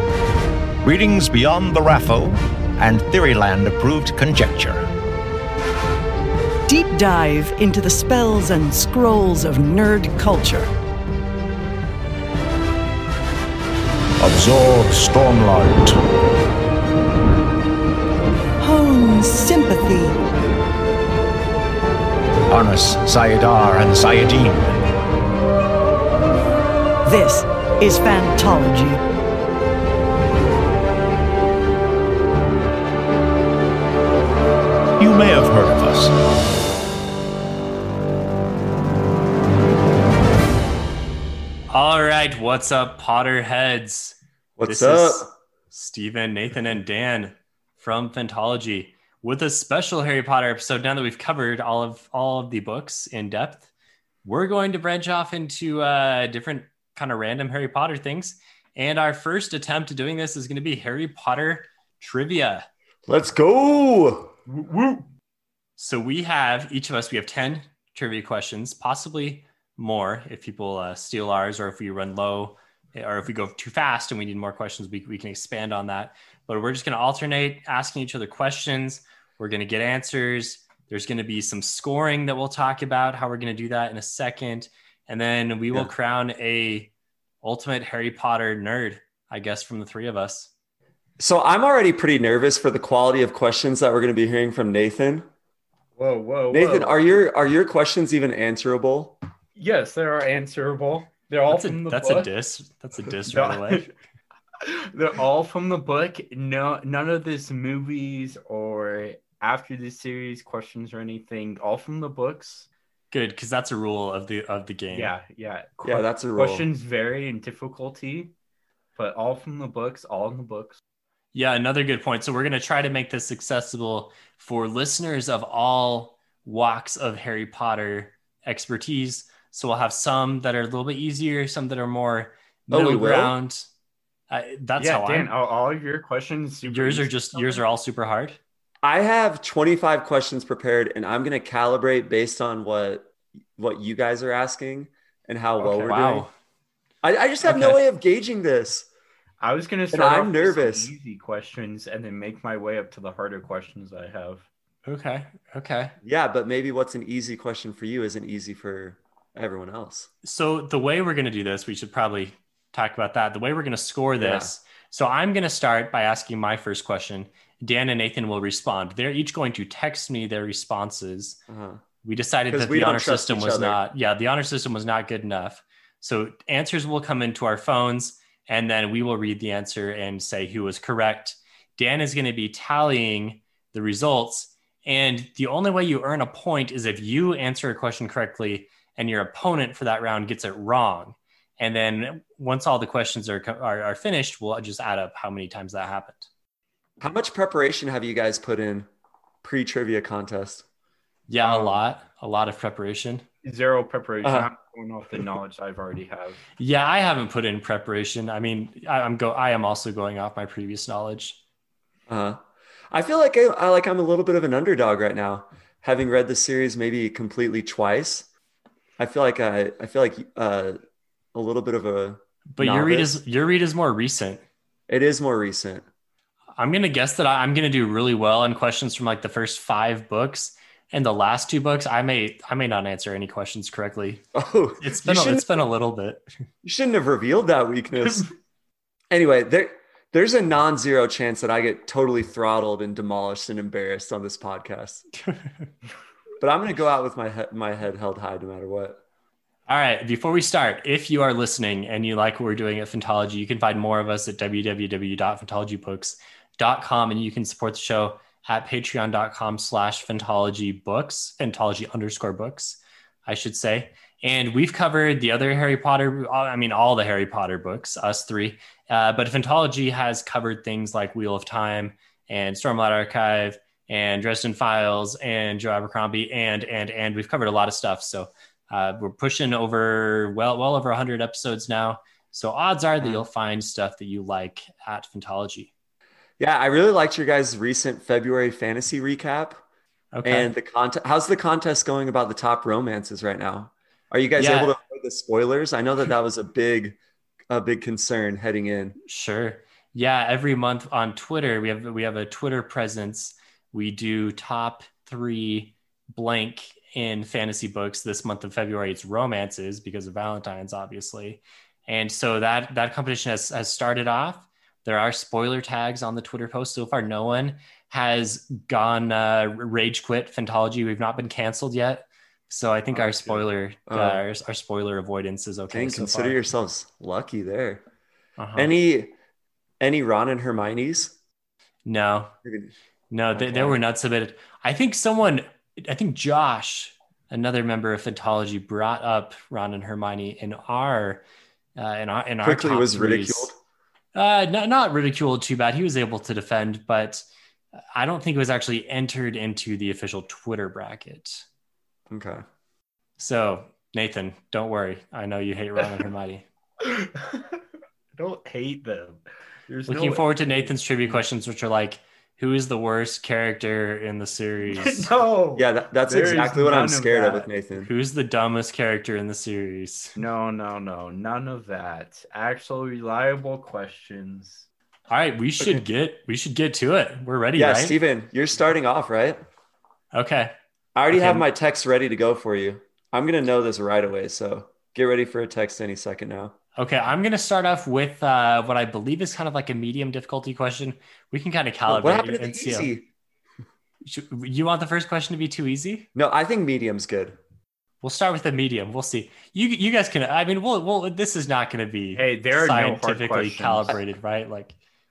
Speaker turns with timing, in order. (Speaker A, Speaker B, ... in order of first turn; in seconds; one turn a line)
Speaker A: 0.8-4.9
Speaker B: 6.7-10.7
Speaker A: 14.2-16.0
Speaker B: 18.6-20.2
Speaker A: 22.5-24.8
Speaker B: 27.0-29.0
Speaker A: 35.0-36.1
Speaker C: 41.7-53.7
Speaker D: 44.6-45.3
Speaker C: 54.2-62.7
Speaker D: 63.1-64.3
Speaker E: 64.5-65.0
Speaker C: 65.8-86.9
Speaker C: 87.4-90.5
Speaker D: 91.2-95.3
Speaker E: 96.0-97.0
Speaker D: 96.5-99.2
Speaker E: 99.5-102.3
Speaker C: 101.5-103.9
Speaker E: 103.3-103.9
Speaker E: 104.6-112.7
Speaker C: 113.1-115.1
Speaker E: 114.9-118.3
Speaker D: 115.8-116.7
Speaker E: 119.0-120.8
Speaker C: 121.3-133.7
Speaker D: 132.7-133.3
Speaker C: 134.3-135.3
Speaker E: 134.8-137.6
Speaker C: 136.7-138.4
Speaker D: 138.8-146.3
Speaker C: 145.6-146.3
Speaker D: 147.0-148.9
Speaker C: 147.4-147.8
Speaker E: 149.4-154.4
Speaker D: 149.9-150.9
Speaker C: 154.8-155.9
Speaker D: 156.0-160.1
Speaker C: 160.2-171.4
Speaker D: 164.2-164.5
Speaker D: 171.5-171.8
Speaker C: 172.0-196.3
Speaker D: 172.5-173.8
Speaker D: 197.0-198.9
Speaker D: 199.4-200.6
Speaker C: 201.3-203.2
Speaker E: 201.4-201.7
Speaker E: 203.4-206.4
Speaker D: 204.2-204.5
Speaker C: 206.6-211.4
Speaker D: 212.1-212.4
Speaker D: 212.9-218.3
Speaker D: 219.0-220.8
Speaker D: 221.3-223.2
Speaker C: 222.5-224.4
Speaker D: 224.9-225.8
Speaker C: 226.6-234.2
Speaker D: 234.3-235.6
Speaker C: 234.8-236.2
Speaker D: 236.6-238.2
Speaker D: 239.1-245.0
Speaker D: 246.4-249.0
Speaker C: 249.7-285.7
Speaker D: 283.0-283.3
Speaker D: 286.4-289.6
Speaker C: 290.1-290.5
Speaker D: 290.2-297.0
Speaker C: 294.4-294.8
Speaker D: 297.5-299.0
Speaker C: 299.1-326.4
Speaker D: 322.9-324.2
Speaker D: 325.7-327.8
Speaker C: 328.4-328.7
Speaker D: 328.5-329.1
Speaker D: 329.8-331.1
Speaker C: 331.9-332.3
Speaker D: 332.4-332.7
Speaker C: 333.1-341.2
Speaker D: 333.3-333.8
Speaker C: 341.8-343.5
Speaker D: 342.4-343.6
Speaker C: 344.1-347.2
Speaker C: 347.9-351.4
Speaker D: 352.1-352.4
Speaker C: 353.2-356.4
Speaker E: 356.8-357.6
Speaker E: 358.2-360.8
Speaker C: 359.9-365.1
Speaker E: 364.6-367.5
Speaker D: 365.6-367.9
Speaker C: 367.8-370.1
Speaker E: 370.1-374.7
Speaker C: 375.1-378.0
Speaker D: 377.5-379.4
Speaker C: 380.1-380.5
Speaker D: 380.9-386.5
Speaker C: 381.1-381.4
Speaker C: 386.8-392.9
Speaker D: 391.9-393.1
Speaker C: 394.0-396.1
Speaker D: 396.1-397.4
Speaker C: 398.0-404.7
Speaker E: 402.1-404.0